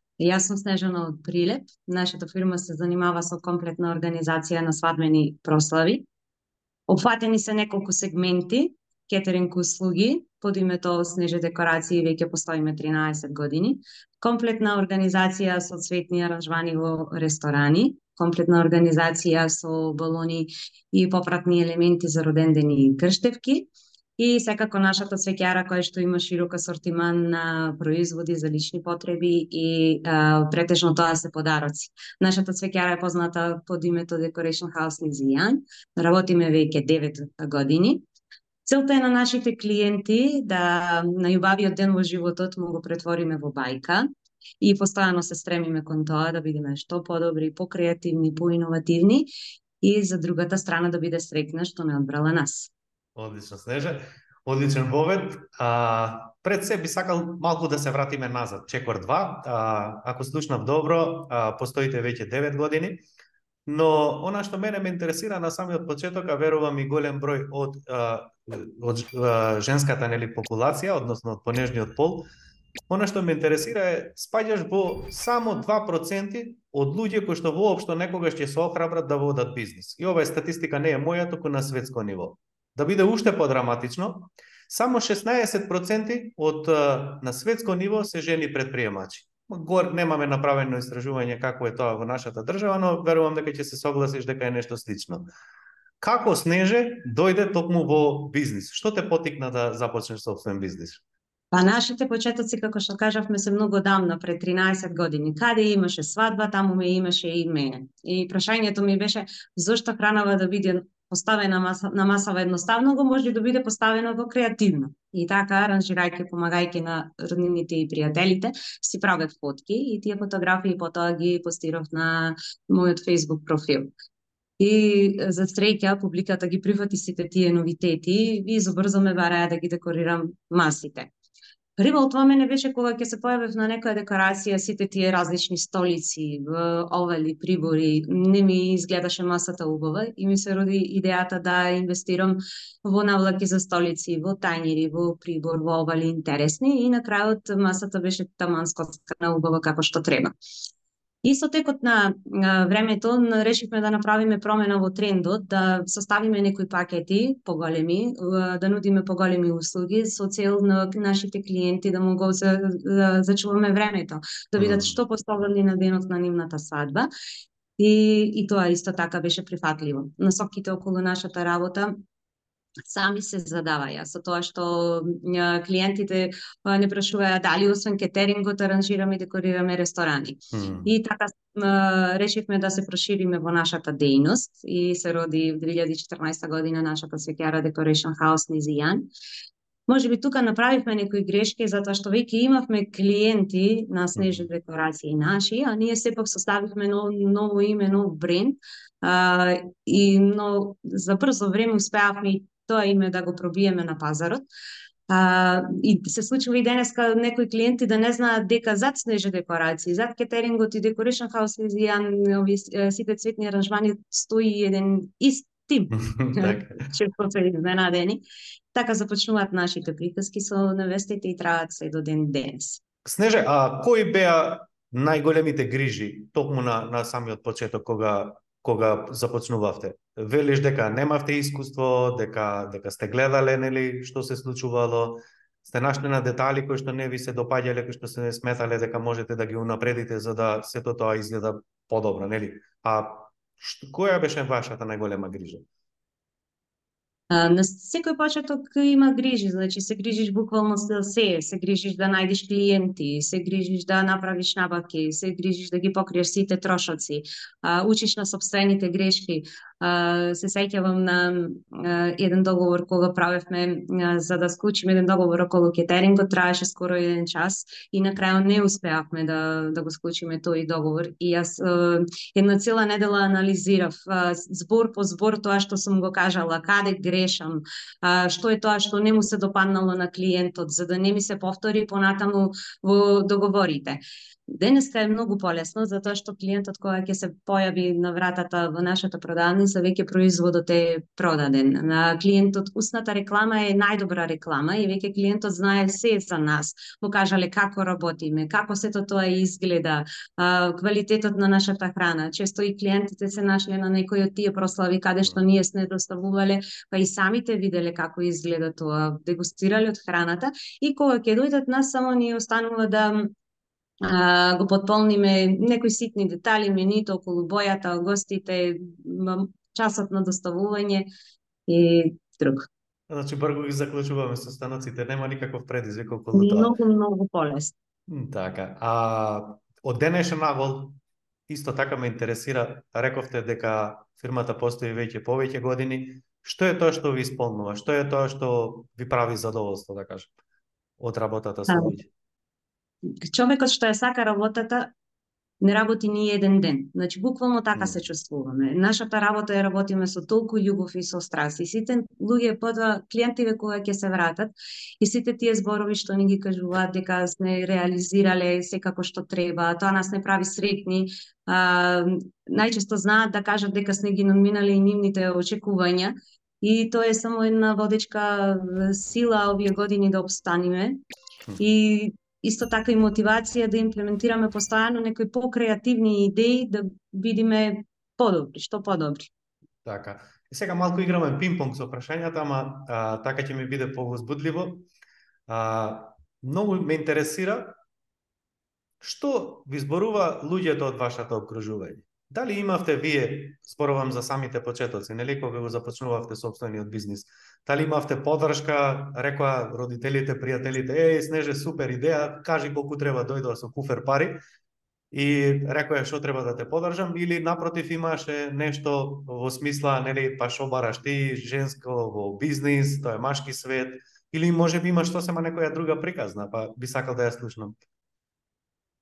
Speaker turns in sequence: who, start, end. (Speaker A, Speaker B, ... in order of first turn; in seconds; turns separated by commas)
Speaker A: 0.2-6.0, Speaker A: 6.9-38.0, Speaker A: 38.6-44.1, Speaker A: 44.6-49.3, Speaker A: 49.8-52.7, Speaker B: 53.1-63.0, Speaker B: 63.7-72.2, Speaker B: 72.9-95.2, Speaker B: 96.0-101.0, Speaker A: 101.5-123.9, Speaker A: 124.6-131.1, Speaker A: 131.8-150.3, Speaker A: 151.2-167.1, Speaker B: 164.6-165.0, Speaker A: 167.8-171.9, Speaker A: 172.9-189.1, Speaker B: 180.5-180.9, Speaker A: 189.9-204.4, Speaker B: 194.1-194.5, Speaker A: 205.1-218.2, Speaker B: 216.0-216.9, Speaker A: 218.7-222.8, Speaker B: 223.0-245.6, Speaker A: 247.3-313.3, Speaker A: 314.0-321.1, Speaker A: 321.7-322.7, Speaker B: 323.1-326.7, Speaker A: 326.3-327.7, Speaker B: 328.1-330.9, Speaker B: 331.5-340.3, Speaker B: 341.0-342.1, Speaker A: 343.3-344.9, Speaker A: 345.6-371.0, Speaker B: 347.8-348.0, Speaker A: 371.6-379.3, Speaker B: 379.8-384.9, Speaker B: 385.5-387.7, Speaker B: 389.0-404.4, Speaker B: 405.1-417.8